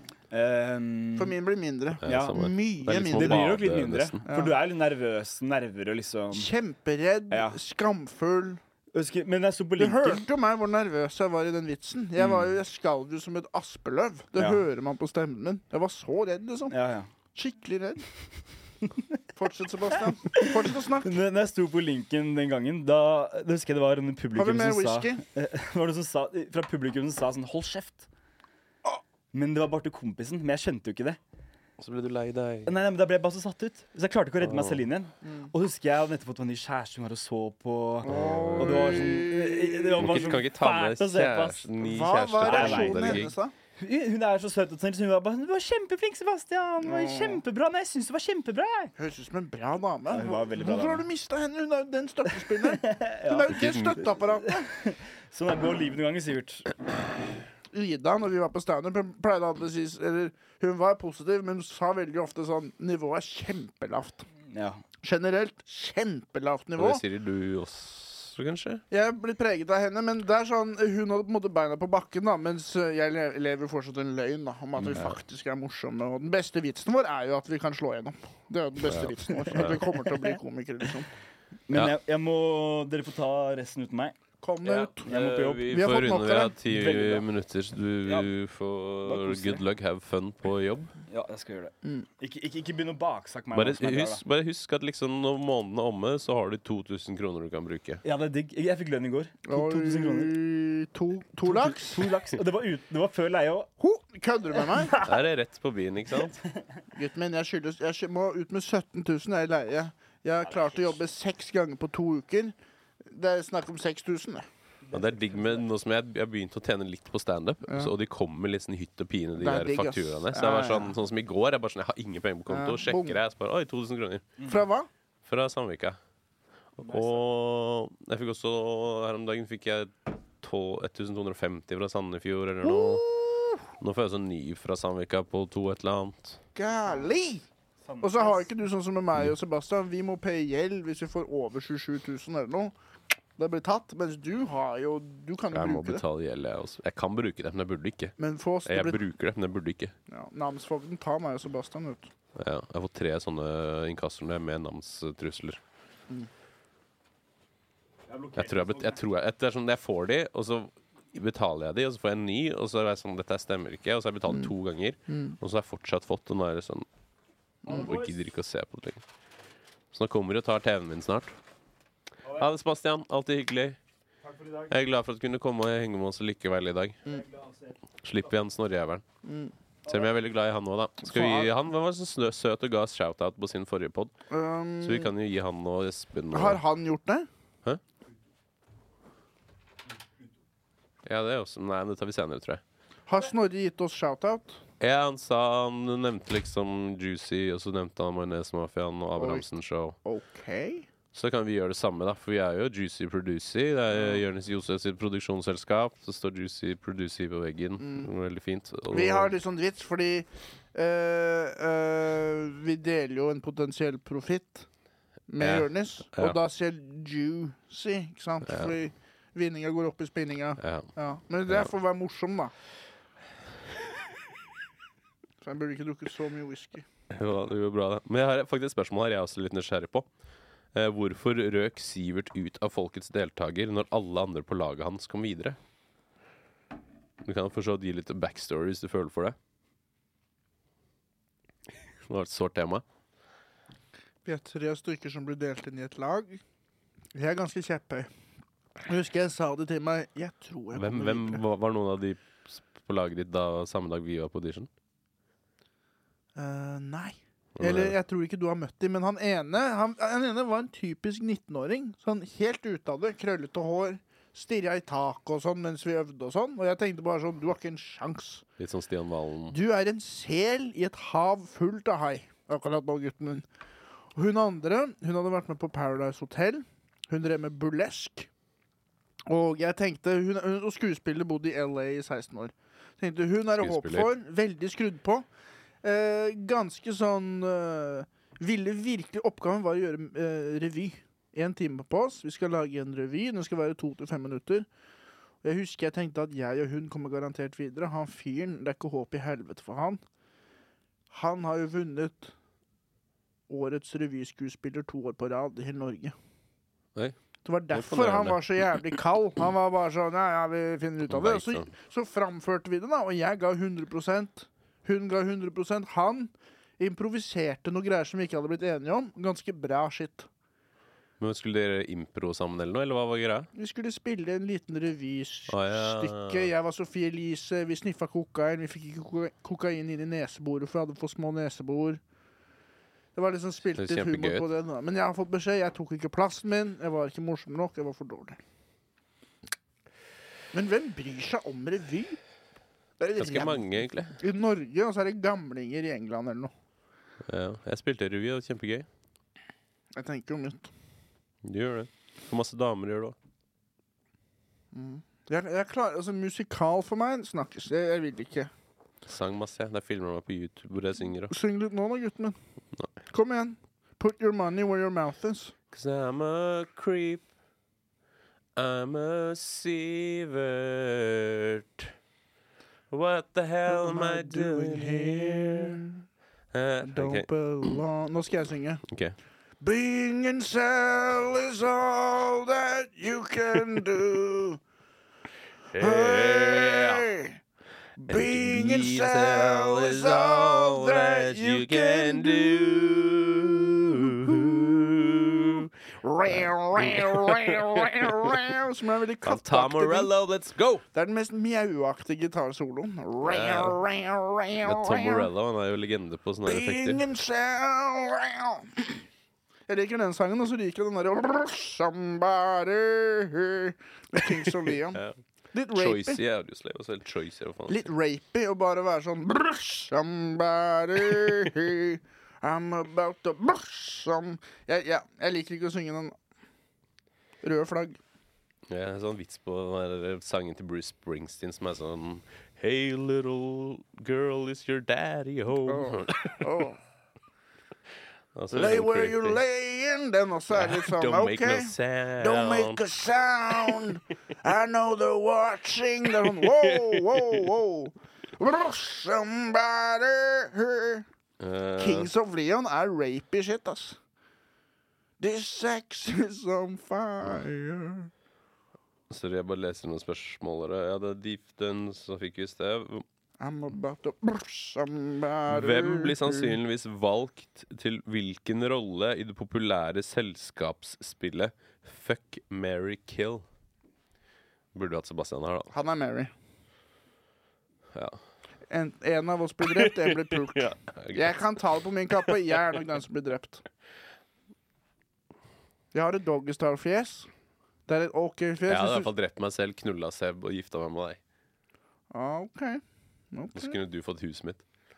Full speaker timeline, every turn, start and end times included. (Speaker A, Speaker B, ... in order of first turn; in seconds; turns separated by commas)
Speaker A: 0.3-1.4, Speaker B: 1.2-3.5, Speaker C: 2.0-4.2, Speaker A: 2.0-6.5, Speaker B: 4.3-4.6, Speaker B: 6.3-8.6, Speaker A: 7.3-7.6, Speaker A: 8.9-10.2, Speaker B: 9.8-16.8, Speaker A: 12.2-12.5, Speaker A: 14.4-14.6, Speaker A: 16.7-17.1, Speaker B: 17.3-18.1, Speaker A: 18.9-19.2, Speaker B: 19.4-21.1, Speaker A: 20.2-28.1, Speaker B: 24.4-25.2, Speaker A: 29.3-31.2, Speaker C: 31.8-32.7, Speaker A: 32.7-41.7, Speaker C: 34.4-34.8, Speaker B: 38.0-40.2, Speaker C: 38.1-39.2, Speaker C: 40.0-43.3, Speaker B: 41.8-43.5, Speaker A: 42.4-43.3, Speaker A: 43.8-48.9, Speaker B: 46.8-47.4, Speaker B: 49.0-54.7, Speaker A: 50.1-51.1, Speaker A: 52.5-56.7, Speaker C: 53.5-54.0, Speaker B: 57.7-64.3, Speaker A: 64.5-64.8, Speaker B: 65.0-67.0, Speaker C: 66.8-68.8, Speaker B: 68.9-81.1, Speaker C: 74.9-75.2, Speaker C: 78.9-79.9, Speaker A: 79.6-80.3, Speaker A: 81.7-84.2, Speaker B: 84.4-85.1, Speaker C: 84.6-90.9, Speaker A: 85.0-86.0, Speaker B: 85.6-86.5, Speaker A: 86.7-87.3, Speaker A: 88.0-88.3, Speaker A: 89.0-89.6, Speaker A: 91.1-94.2, Speaker C: 93.5-98.0, Speaker A: 98.0-100.3, Speaker B: 99.5-102.0, Speaker A: 101.5-103.7, Speaker B: 103.8-105.0, Speaker A: 104.7-105.1, Speaker C: 105.0-106.4, Speaker B: 106.9-112.5, Speaker B: 113.1-114.5, Speaker A: 114.9-115.7, Speaker C: 114.9-124.3, Speaker B: 117.7-117.9, Speaker B: 119.4-121.0, Speaker B: 122.5-123.2, Speaker B: 124.4-124.9, Speaker C: 125.2-126.0, Speaker C: 126.8-133.1, Speaker B: 132.7-133.6, Speaker C: 133.8-136.4, Speaker B: 136.6-137.4, Speaker A: 137.8-138.4, Speaker B: 138.0-142.7, Speaker B: 143.4-146.0, Speaker C: 145.5-148.1, Speaker B: 148.2-149.0, Speaker C: 148.7-149.9, Speaker B: 150.1-152.1, Speaker C: 152.4-155.6, Speaker A: 158.1-159.0, Speaker C: 158.4-166.9, Speaker B: 165.1-165.4, Speaker C: 167.7-169.0, Speaker A: 167.7-168.2, Speaker C: 169.9-171.4, Speaker C: 172.3-173.8, Speaker A: 174.2-174.7, Speaker C: 174.7-177.0, Speaker A: 177.1-177.8, Speaker C: 178.0-179.0, Speaker B: 179.2-179.5, Speaker C: 179.9-184.1, Speaker B: 181.0-181.5, Speaker B: 184.3-185.1, Speaker C: 184.8-186.6, Speaker B: 186.3-187.3, Speaker C: 191.1-192.6, Speaker B: 193.1-194.6, Speaker C: 194.8-200.0, Speaker B: 199.2-199.4, Speaker B: 200.1-200.9, Speaker C: 201.1-209.3, Speaker B: 203.9-204.2, Speaker B: 207.8-208.1, Speaker B: 208.9-214.7, Speaker B: 215.3-222.5, Speaker C: 215.4-216.4, Speaker C: 218.4-218.7, Speaker C: 220.6-220.9, Speaker B: 225.4-226.8, Speaker C: 227.1-230.1, Speaker C: 230.7-235.6, Speaker C: 237.2-239.4, Speaker C: 242.1-242.8, Speaker B: 244.2-246.4, Speaker B: 247.2-248.1, Speaker B: 248.8-251.4, Speaker C: 250.7-254.7, Speaker B: 256.4-268.4, Speaker C: 257.6-258.0, Speaker C: 268.6-269.6, Speaker B: 269.5-273.4, Speaker B: 274.1-278.3, Speaker B: 279.3-285.2, Speaker C: 283.6-284.1, Speaker B: 285.8-294.7, Speaker B: 295.4-300.0, Speaker B: 301.1-302.3, Speaker B: 303.5-306.1, Speaker B: 307.4-320.3, Speaker C: 307.7-308.4, Speaker C: 311.1-311.7, Speaker C: 321.2-323.5, Speaker B: 323.6-332.0, Speaker C: 325.5-326.5, Speaker B: 333.1-338.4, Speaker C: 333.8-334.5, Speaker B: 340.5-342.2, Speaker B: 343.0-346.5, Speaker C: 343.2-344.2, Speaker C: 347.3-348.9, Speaker B: 349.9-350.7, Speaker C: 351.4-353.2, Speaker B: 354.7-358.5, Speaker C: 359.1-361.3, Speaker B: 361.3-362.4, Speaker B: 363.1-365.5, Speaker C: 365.7-367.3, Speaker C: 368.6-371.9, Speaker C: 372.9-375.8, Speaker B: 373.7-376.0, Speaker C: 376.5-377.8, Speaker B: 376.8-378.8, Speaker C: 378.9-379.1, Speaker B: 379.6-384.6, Speaker C: 385.7-387.1, Speaker B: 385.8-387.4, Speaker B: 388.0-400.1, Speaker C: 388.1-395.7, Speaker C: 396.3-398.6, Speaker C: 399.2-400.8, Speaker B: 400.9-405.3, Speaker C: 403.2-403.8, Speaker C: 404.6-407.0, Speaker B: 406.4-409.0, Speaker B: 409.7-415.0, Speaker B: 415.5-416.2, Speaker C: 415.7-417.8, Speaker B: 417.7-426.1, Speaker B: 427.4-428.0, Speaker C: 428.7-436.4, Speaker B: 435.7-436.8, Speaker C: 438.4-439.4, Speaker B: 438.5-451.1, Speaker C: 440.5-442.8, Speaker C: 443.6-443.9, Speaker C: 446.2-447.5, Speaker C: 451.4-452.1, Speaker B: 451.8-454.0, Speaker B: 455.2-458.1, Speaker C: 459.1-463.1, Speaker B: 463.4-466.6, Speaker C: 465.5-473.4, Speaker C: 474.7-475.7, Speaker B: 475.7-476.3, Speaker C: 477.9-478.2, Speaker B: 478.7-483.6, Speaker C: 479.6-481.3, Speaker B: 485.9-487.3, Speaker B: 487.9-489.1, Speaker C: 488.7-491.2, Speaker B: 492.1-492.8, Speaker B: 493.3-493.8, Speaker C: 493.6-494.6